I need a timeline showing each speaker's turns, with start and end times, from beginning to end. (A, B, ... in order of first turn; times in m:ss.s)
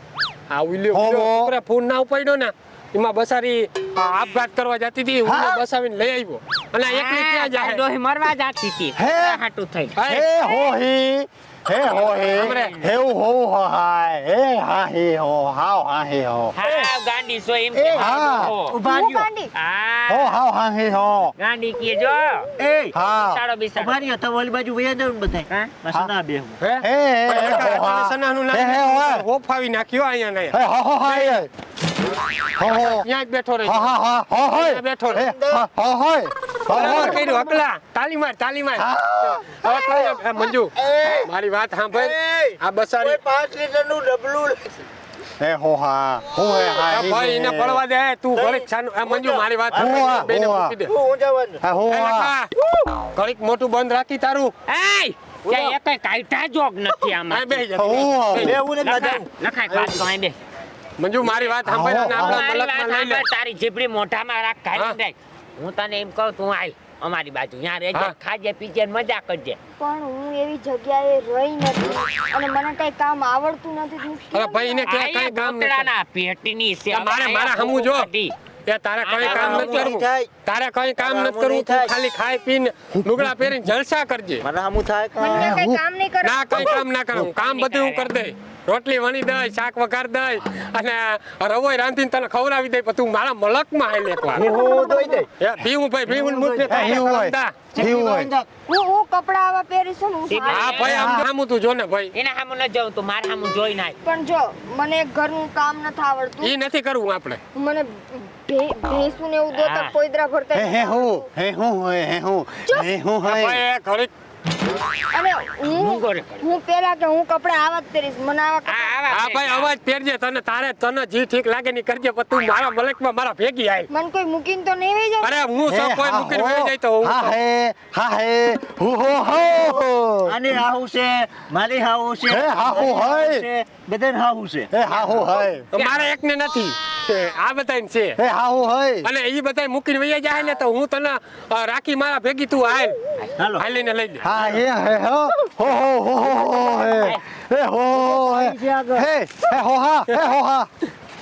0:00.5-0:07.8 A
0:00.9-0:01.5 B
0:05.2-0:05.6 B
0:06.8-0:10.0 C
0:09.0-0:09.4 B
0:10.0-0:10.3 A
0:10.1-0:16.5 B
0:10.4-0:10.7 D
0:11.8-0:12.9 C
0:12.4-0:12.7 A
0:16.6-0:18.8 C
0:16.6-0:16.9 E
0:17.8-0:18.5 B
0:18.7-0:19.3 E
0:18.8-0:19.5 D
0:19.5-0:20.4 C
0:20.1-0:21.3 B
0:21.4-0:22.5 C
0:22.6-0:22.9 E
0:22.9-0:23.4 B
0:23.0-0:24.0 C
0:23.8-0:26.6 E
0:25.5-0:25.7 C
0:26.6-0:31.4 A
0:26.8-0:29.2 B
0:30.5-0:31.5 B
0:32.6-0:33.1 B
0:32.6-0:33.9 A
0:33.6-0:37.3 B
0:34.5-0:35.2 A
0:35.1-0:35.6 E
0:36.7-0:43.2 A
0:36.8-0:37.2 E
0:38.8-0:39.7 B
0:39.8-0:41.3 E
0:41.9-0:44.7 E
0:45.4-0:47.8 B
0:46.9-0:50.9 A
0:48.3-0:50.3 E
0:49.8-0:50.8 B
0:50.8-0:51.6 E
0:51.6-0:52.3 B
0:51.9-0:52.5 A
0:53.1-0:54.5 A
0:54.7-0:57.7 C
0:55.5-0:55.7 E
0:57.3-0:58.6 A
0:57.8-0:58.6 B
0:58.4-1:00.0 E
0:58.8-1:00.4 C
1:01.0-1:03.2 A
1:01.2-1:09.6 C
1:01.6-1:02.5 B
1:09.8-1:14.9 D
1:14.3-1:15.9 A
1:14.9-1:18.4 C
1:16.9-1:18.1 A
1:18.7-1:24.4 A
1:19.0-1:19.9 C
1:19.2-1:20.3 E
1:21.0-1:21.9 E
1:24.4-1:25.6 E
1:25.2-1:26.8 D
1:25.3-1:25.8 B
1:26.2-1:34.5 A
1:27.1-1:28.1 C
1:34.3-1:35.3 E
1:34.4-1:35.2 D
1:35.4-1:37.6 A
1:36.1-1:37.0 E
1:36.7-1:38.3 B
1:37.7-1:38.5 E
1:38.7-1:41.0 D
1:40.3-1:41.1 C
1:40.5-1:42.1 A
1:40.8-1:41.3 B
1:42.1-1:44.0 C
1:44.0-1:46.6 D
1:46.4-1:47.4 A
1:47.6-1:51.3 D
1:49.5-1:49.9 C
1:50.5-1:53.6 B
1:53.2-1:54.1 A
1:55.1-1:59.0 D
1:55.7-1:56.4 C
1:58.7-1:59.7 C
1:59.1-2:03.9 A
2:03.9-2:05.4 D
2:05.2-2:07.3 A
2:05.7-2:10.4 B
2:10.3-2:14.7 E
2:12.3-2:13.4 B
2:14.7-2:15.7 B
2:15.7-2:16.1 C
2:15.7-2:18.2 A
2:18.2-2:19.1 B
2:19.0-2:23.0 A
2:23.4-2:23.6 E
2:23.6-2:24.3 A
2:24.2-2:30.7 B
2:24.3-2:24.6 E
2:26.4-2:26.8 E
2:27.9-2:29.1 E